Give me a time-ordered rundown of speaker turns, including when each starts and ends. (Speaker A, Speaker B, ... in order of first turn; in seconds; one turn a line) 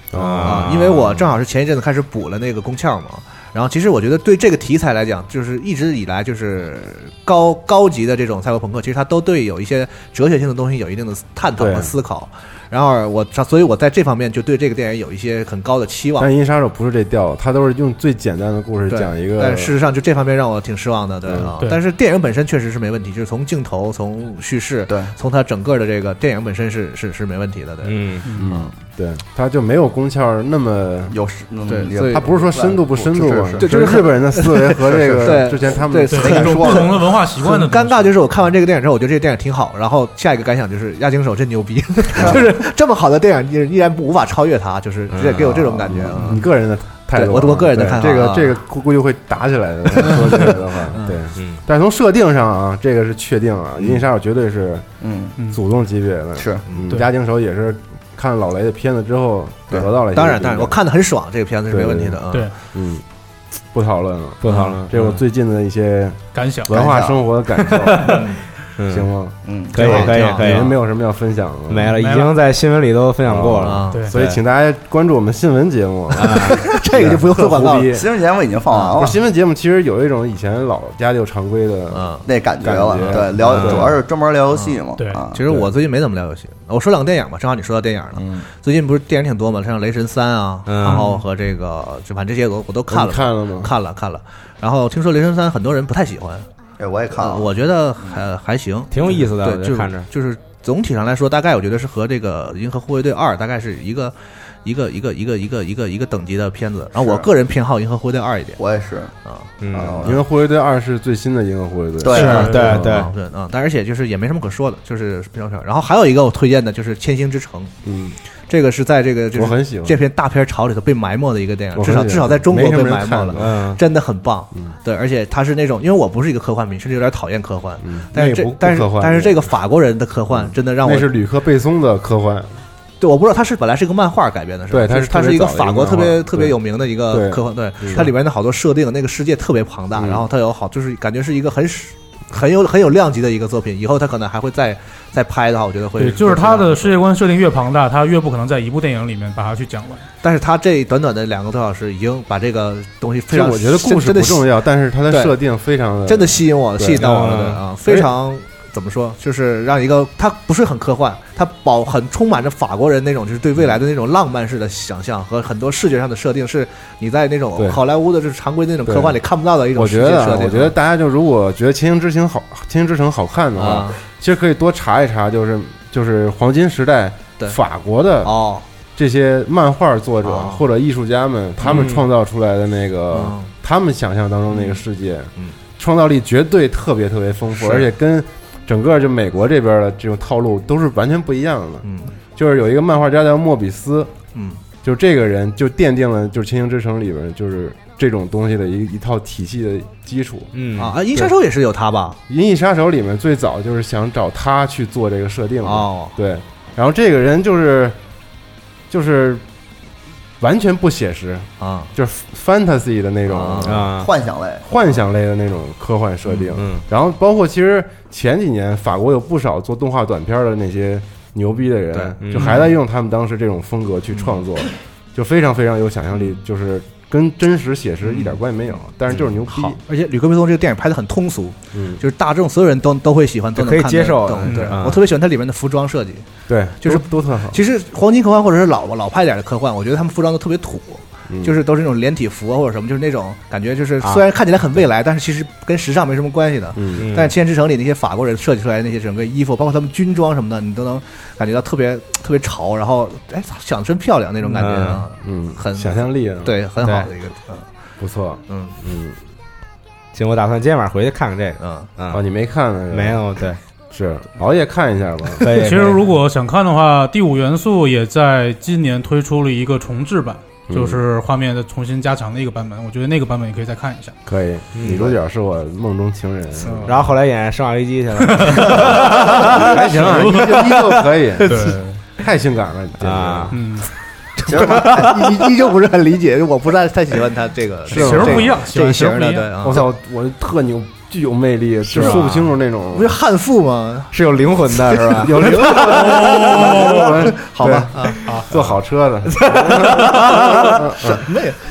Speaker A: 0.1-0.7
Speaker B: 0.1-1.3
Speaker C: 0.4-16.3
Speaker A: 11.6-11.9
Speaker A: 16.2-19.8
Speaker C: 18.9-28.7
Speaker A: 21.2-21.5
Speaker B: 27.8-28.3
Speaker A: 28.4-31.1
Speaker D: 31.1-33.6
Speaker C: 31.7-46.4
Speaker A: 32.1-36.8
Speaker E: 36.1-38.1
Speaker D: 36.2-36.9
Speaker B: 45.1-45.9
Speaker A: 45.9-54.9
Speaker C: 47.1-48.5
Speaker C: 50.0-51.2
Speaker D: 55.0-55.4
Speaker A: 55.5-60.8
Speaker D: 56.4-56.6
Speaker C: 60.1-62.5
Speaker A: 61.7-62.2
Speaker A: 62.7-63.0
Speaker A: 63.7-68.2
Speaker B: 64.4-64.9
Speaker C: 64.5-65.0
Speaker E: 66.3-66.7
Speaker D: 66.7-67.2
Speaker B: 67.7-68.2
Speaker B: 68.8-69.0
Speaker A: 68.9-72.0
Speaker D: 69.4-70.1
Speaker B: 69.7-70.7
Speaker C: 69.8-70.6
Speaker B: 71.7-74.4
Speaker E: 71.9-72.3
Speaker A: 73.2-78.1
Speaker C: 73.6-74.0
Speaker B: 76.2-76.6
Speaker C: 76.3-77.9
Speaker D: 77.9-79.2
Speaker C: 78.7-79.0
Speaker A: 79.0-84.0
Speaker C: 81.9-82.3
Speaker D: 82.2-85.4
Speaker B: 83.5-83.9
Speaker C: 85.3-96.5
Speaker B: 90.7-91.1
Speaker E: 90.8-91.2
Speaker A: 92.9-93.7
Speaker D: 96.8-98.2
Speaker C: 97.1-108.6
Speaker B: 98.9-100.1
Speaker D: 107.0-107.3
Speaker D: 108.6-109.1
Speaker B: 109.6-110.0
Speaker D: 109.7-110.2
Speaker A: 110.0-113.0
Speaker D: 112.0-112.8
Speaker B: 112.1-113.1
Speaker C: 112.2-117.7
Speaker A: 117.8-118.2
Speaker C: 118.5-131.1
Speaker A: 119.3-120.0
Speaker A: 121.7-123.5
Speaker B: 123.4-123.8
Speaker A: 127.8-129.5
Speaker A: 130.3-132.6
Speaker C: 133.0-147.0
Speaker A: 134.7-138.1
Speaker A: 139.9-140.2
Speaker E: 146.0-150.1
Speaker C: 150.2-154.5
Speaker A: 153.3-157.0
Speaker C: 155.1-155.3
Speaker C: 156.1-170.7
Speaker B: 157.0-157.6
Speaker A: 168.8-169.2
Speaker A: 169.7-178.3
Speaker C: 173.6-173.9
Speaker C: 178.2-178.6
Speaker A: 178.9-191.8
Speaker C: 180.2-180.6
Speaker B: 181.6-182.0
Speaker C: 183.1-183.5
Speaker C: 184.5-184.8
Speaker C: 187.6-187.9
Speaker C: 191.8-192.1
Speaker A: 192.3-194.1
Speaker C: 194.3-194.6
Speaker A: 194.8-200.5
Speaker B: 200.5-200.9
Speaker C: 200.8-202.2
Speaker A: 202.3-208.0
Speaker C: 205.6-206.1
Speaker A: 208.9-209.4
Speaker A: 210.4-213.9
Speaker C: 211.6-211.9
Speaker C: 213.3-213.8
Speaker B: 213.7-214.1
Speaker D: 213.9-214.6
Speaker A: 214.6-229.8
Speaker B: 216.5-216.8
Speaker B: 222.2-222.7
Speaker C: 228.0-228.4
Speaker C: 229.5-236.2
Speaker A: 231.7-232.0
Speaker B: 233.5-235.0
Speaker A: 236.5-237.6
Speaker C: 236.8-257.6
Speaker A: 241.3-241.6
Speaker A: 246.7-247.0
Speaker B: 247.0-247.3
Speaker B: 254.4-255.1
Speaker A: 255.2-256.5
Speaker B: 256.8-257.1
Speaker A: 258.0-259.2
Speaker C: 258.5-258.7
Speaker B: 260.1-262.2
Speaker C: 261.6-261.9
Speaker A: 262.1-263.2
Speaker B: 262.9-263.6
Speaker A: 263.9-265.5
Speaker B: 265.4-266.0
Speaker E: 265.5-274.1
Speaker A: 270.7-271.0
Speaker A: 274.2-276.9
Speaker B: 274.7-275.1
Speaker E: 276.6-276.9
Speaker B: 276.8-279.9
Speaker E: 278.3-278.8
Speaker A: 278.8-283.6
Speaker E: 280.0-280.7
Speaker B: 280.5-281.8
Speaker E: 281.5-281.9
Speaker B: 283.0-283.6
Speaker E: 283.5-283.9
Speaker C: 284.4-289.8
Speaker D: 284.5-285.3
Speaker A: 287.9-288.6
Speaker E: 287.9-289.5
Speaker A: 289.6-293.1
Speaker B: 291.9-292.5
Speaker C: 292.9-294.1
Speaker B: 294.1-295.9
Speaker C: 294.7-298.2
Speaker A: 295.2-301.2
Speaker E: 295.8-297.3
Speaker B: 299.4-300.6
Speaker C: 301.0-301.6